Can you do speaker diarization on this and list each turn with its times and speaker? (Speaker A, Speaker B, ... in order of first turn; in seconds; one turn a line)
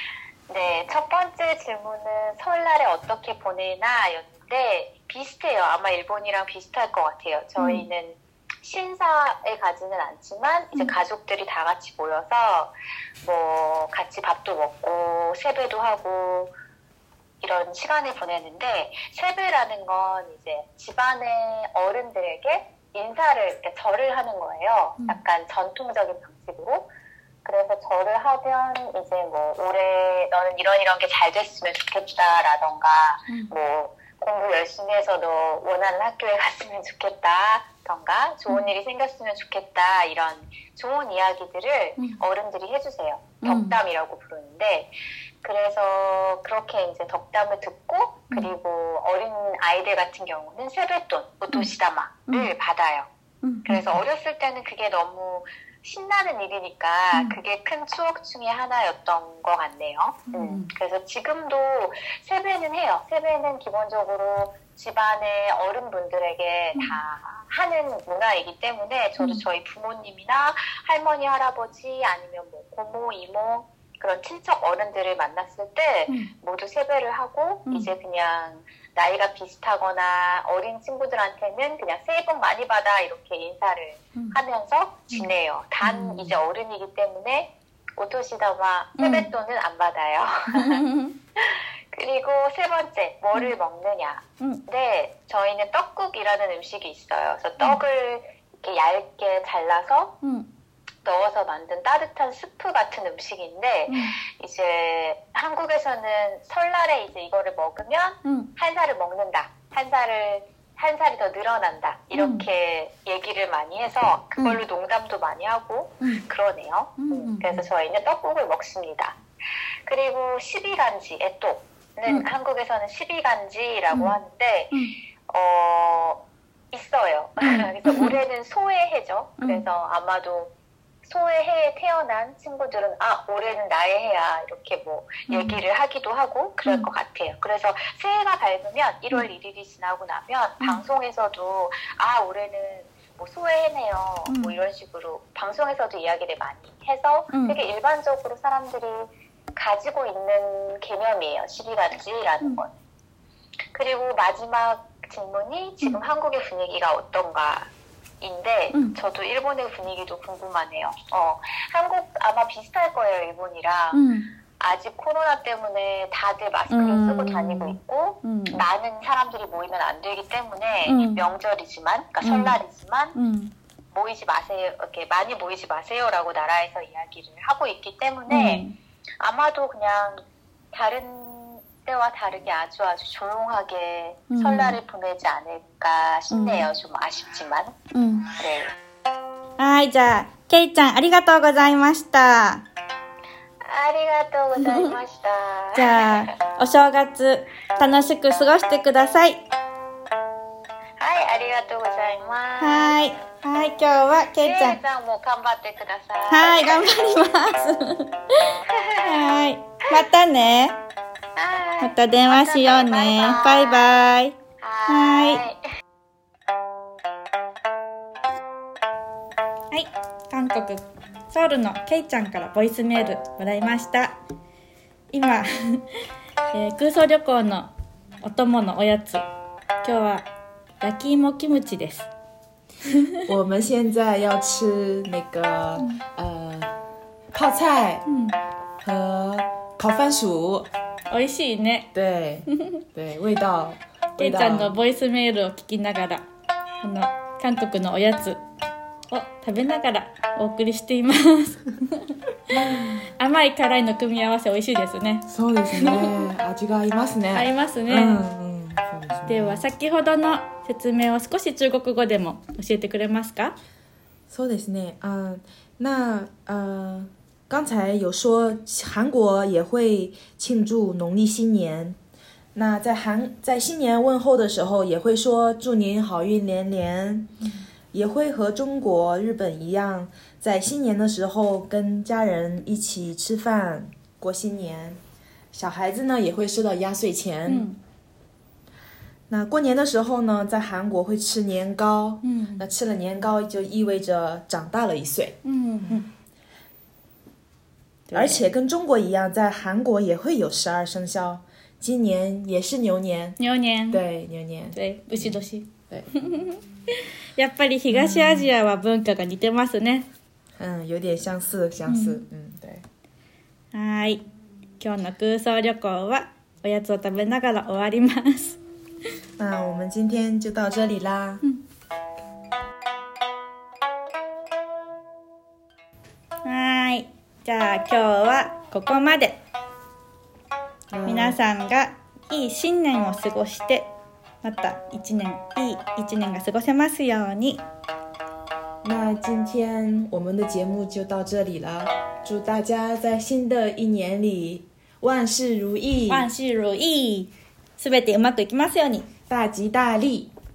Speaker A: 0.5-16.5
Speaker B: 7.6-7.8
Speaker A: 17.4-26.9
Speaker A: 27.4-44.9
Speaker B: 43.4-43.8
Speaker A: 45.4-53.1
Speaker B: 53.4-54.0
Speaker A: 53.6-90.8
Speaker B: 57.1-57.4
Speaker B: 60.3-60.7
Speaker B: 85.8-86.4
Speaker B: 89.0-89.3
Speaker B: 90.5-91.1
Speaker A: 91.4-100.2
Speaker B: 100.2-100.5
Speaker A: 101.0-119.2
Speaker B: 103.9-104.1
Speaker B: 112.1-112.5
Speaker B: 117.0-117.6
Speaker A: 119.8-124.7
Speaker A: 125.3-130.5
Speaker B: 127.4-128.1
Speaker B: 129.4-129.7
Speaker A: 131.0-152.7
Speaker B: 135.3-135.6
Speaker B: 144.3-144.6
Speaker B: 147.3-147.6
Speaker A: 153.7-157.7
Speaker A: 158.2-164.0
Speaker B: 163.9-164.3
Speaker A: 164.6-173.2
Speaker B: 166.7-168.6
Speaker B: 170.8-171.2
Speaker B: 172.2-172.6
Speaker B: 173.1-173.5
Speaker A: 173.9-178.6
Speaker B: 178.3-178.7
Speaker A: 179.2-180.2
Speaker A: 180.7-187.8
Speaker B: 184.3-184.8
Speaker B: 186.3-186.7
Speaker B: 187.9-188.3
Speaker A: 188.3-188.7
Speaker B: 189.6-192.6
Speaker A: 193.6-196.2
Speaker B: 194.6-194.9
Speaker B: 195.7-199.4
Speaker A: 201.0-203.0
Speaker B: 202.6-204.8
Speaker A: 204.3-207.0
Speaker B: 206.3-210.8
Speaker A: 208.7-209.3
Speaker A: 211.3-213.9
Speaker B: 211.8-215.4
Speaker A: 214.6-215.6
Speaker B: 219.7-224.2
Speaker B: 225.1-225.8
Speaker B: 226.5-229.2
Speaker B: 229.8-230.3
Speaker B: 230.8-232.1
Speaker B: 232.8-233.2
Speaker C: 233.2-238.1
Speaker B: 235.8-236.0
Speaker B: 238.1-238.3
Speaker C: 238.8-240.7
Speaker B: 241.1-241.9
Speaker C: 241.9-244.8
Speaker B: 242.5-242.8
Speaker B: 244.2-246.2
Speaker B: 246.8-248.4
Speaker B: 249.1-252.2
Speaker C: 252.5-253.1
Speaker B: 253.1-256.2
Speaker C: 255.3-259.6
Speaker B: 257.3-258.2
Speaker B: 259.3-263.5
Speaker C: 264.3-272.0
Speaker C: 272.5-277.3
Speaker C: 277.9-285.0
Speaker C: 285.5-287.7
Speaker B: 287.5-287.8
Speaker C: 289.3-296.1
Speaker B: 292.2-292.6
Speaker B: 295.4-296.1
Speaker B: 298.1-298.5
Speaker C: 298.1-303.4
Speaker B: 303.4-304.0
Speaker C: 303.9-305.4
Speaker B: 304.7-310.1
Speaker C: 307.9-308.5
Speaker C: 310.6-312.8
Speaker B: 311.9-312.2
Speaker B: 313.7-314.2
Speaker B: 314.8-318.6
Speaker C: 319.4-321.4
Speaker B: 326.4-329.4
Speaker C: 330.9-331.4
Speaker B: 331.1-333.9
Speaker B: 334.4-337.6
Speaker C: 338.8-346.3
Speaker B: 346.1-349.1
Speaker C: 349.3-350.3